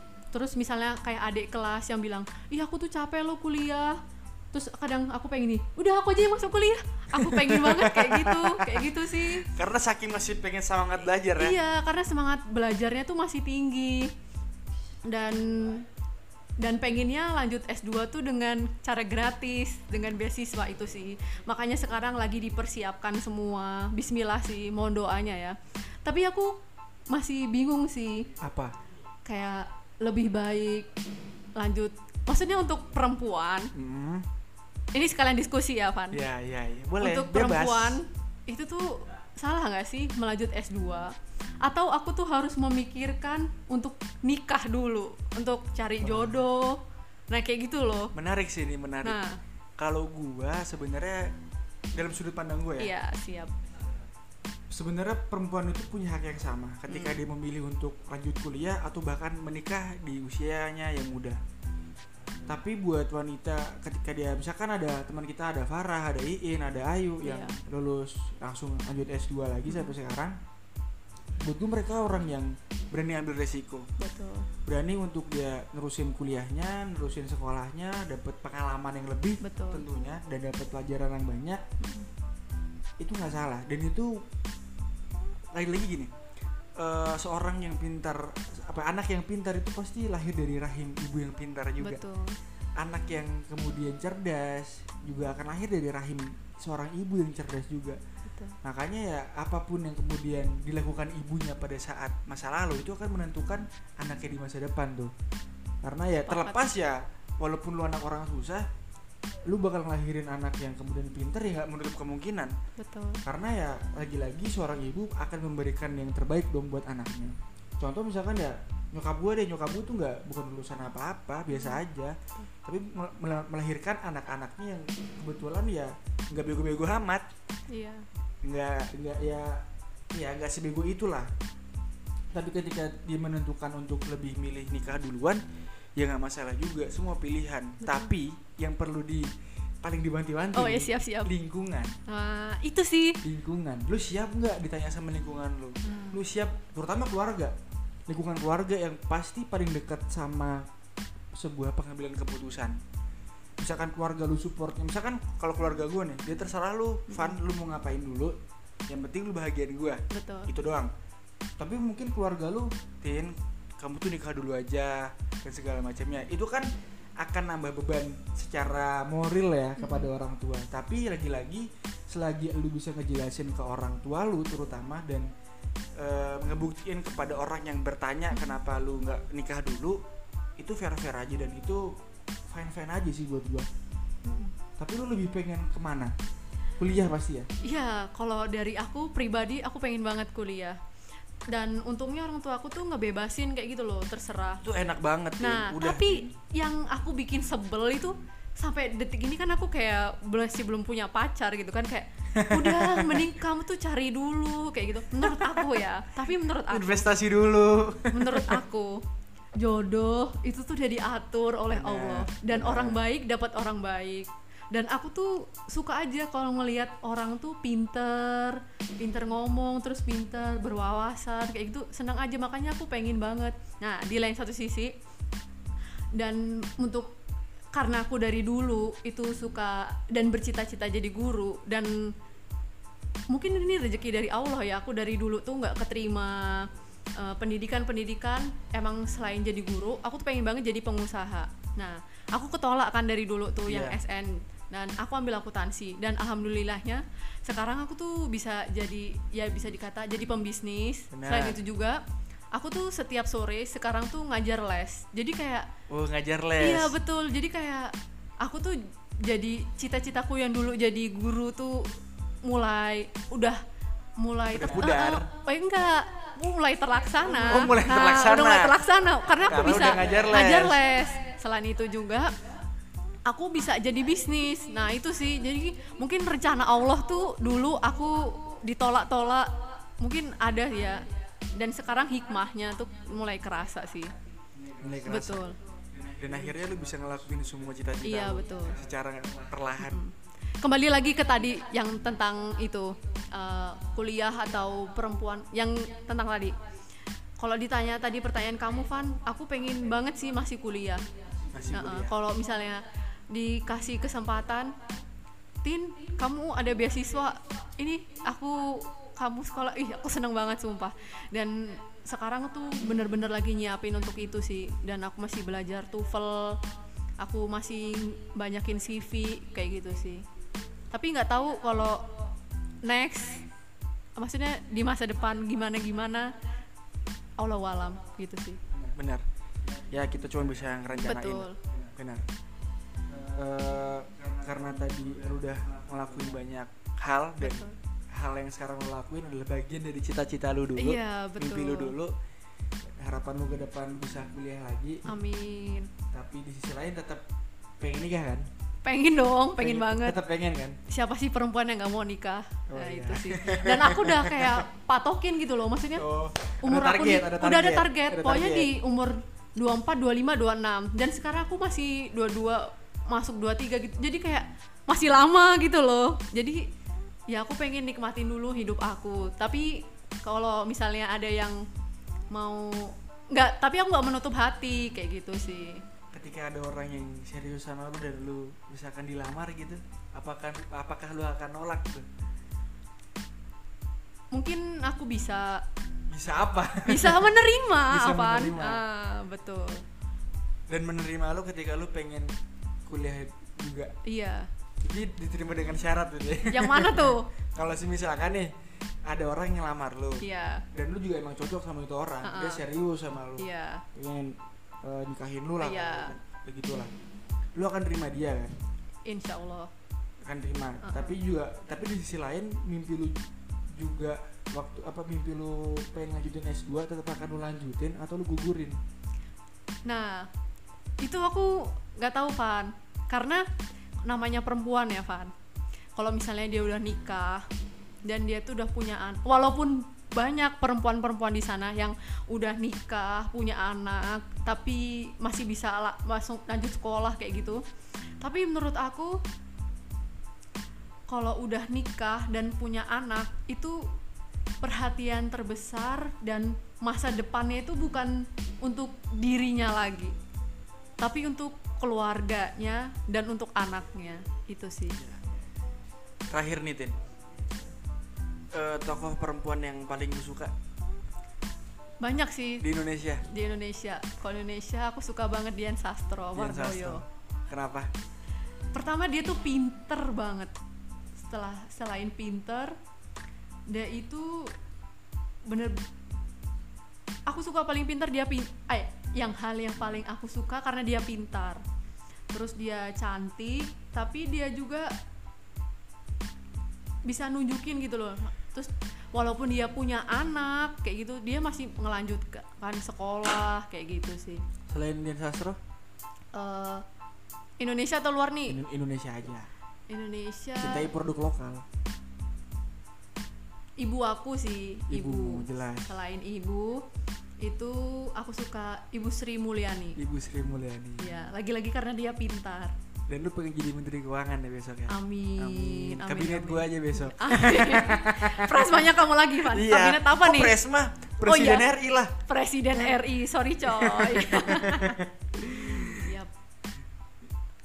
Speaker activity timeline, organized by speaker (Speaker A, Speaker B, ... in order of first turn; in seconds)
Speaker A: 0.3-4.0, 4.5-9.5, 11.4-14.1, 15.0-15.9, 16.6-28.3, 29.2-30.9, 31.6-33.7, 34.9-36.2, 37.0-48.1, 49.0-49.4, 52.8-53.5, 56.9-57.2, 67.2-67.6, 69.7-69.9, 74.0-74.5, 79.4-79.8, 81.8-82.1, 91.8-92.4, 98.3-98.6, 106.2-106.6, 112.8-113.2, 121.5-121.8, 127.7-128.1, 137.8-138.1, 140.6-141.3, 142.1-143.2, 145.8-146.2, 157.1-157.4, 160.1-160.5, 169.8-170.1, 184.2-184.6, 187.6-190.8, 191.5-194.6, 195.4-207.1, 208.1-224.9, 226.2-227.2, 227.7-232.1, 233.3-252.0, 252.5-255.7, 256.6-263.6, 264.2-272.4, 273.2-284.1, 285.1-285.6, 288.0-288.8, 289.8-296.6, 297.4-301.1, 301.7-304.8, 305.6-316.6, 317.2-320.3, 320.9-322.1, 322.8-323.5, 324.2-326.4, 327.4-328.6, 330.9-331.6, 337.4-337.8, 340.8-341.9, 345.1-345.9, 348.9-350.2, 350.9-356.1, 356.6-366.7, 367.3-371.7, 372.3-375.8, 384.3-385.6, 386.9-389.9, 394.1-394.5, 396.5-397.3, 400.2-400.7, 402.2-402.6, 403.4-403.8, 405.6-406.1, 409.1-409.7, 410.8-411.2, 419.9-420.3, 421.0-423.5, 424.0-425.3, 425.9-427.5, 428.1-437.6, 438.2-439.2, 441.1-444.0, 444.6-450.2, 451.0-455.0, 462.0-462.6, 463.2-467.0, 468.7-470.5, 471.2-472.8, 473.7-474.6, 475.5-475.8, 477.3-481.6, 482.3-484.9, 487.1-494.4, 496.3-496.9, 497.6-498.6, 499.9-500.9, 503.8-506.9, 507.4-510.0, 511.0-512.8, 514.9-520.6, 521.2-521.7, 522.2-525.0, 526.0-526.3
Speaker B: 7.1-11.6, 28.4-28.8, 33.7-34.3, 36.1-38.0, 46.0-46.4, 48.1-49.2, 49.8-51.3, 52.0-52.9, 54.7-61.4, 62.5-70.4, 71.4-73.9, 74.7-81.6, 83.0-84.3, 85.5-86.1, 86.8-92.0, 92.8-98.0, 98.6-105.1, 105.8-108.7, 109.5-112.6, 113.2-127.3, 128.4-131.3, 132.3-135.4, 136.0-139.3, 139.8-142.0, 143.2-147.5, 148.1-150.7, 151.3-152.8, 153.6-158.4, 158.9-160.9, 161.6-166.7, 167.2-175.3, 176.0-180.0, 180.6-181.9, 182.5-183.7, 184.8-186.1, 186.8-187.5, 194.6-196.3, 202.3-203.3, 205.2-205.7, 206.7-208.6, 211.7-213.0, 243.7-244.0, 251.1-251.6, 255.9-257.0, 264.5-265.3, 267.2-268.8, 269.4-270.9, 284.6-290.0, 301.5-302.1, 328.7-332.3, 333.1-342.1, 343.0-345.1, 346.1-347.2, 347.8-348.5, 349.6-350.8, 352.7-354.6, 356.0-358.7, 376.1-382.1, 386.1-388.8, 390.7-392.3, 392.9-393.9, 394.8-398.5, 399.1-406.9, 407.6-408.6, 410.2-418.8, 456.3-457.0, 458.5-460.5, 462.6-463.2, 466.3-467.9, 494.7-495.6, 498.5-499.5, 500.6-501.6, 504.9-506.0, 510.0-511.1, 513.1-518.9, 519.4-522.2, 523.7-526.1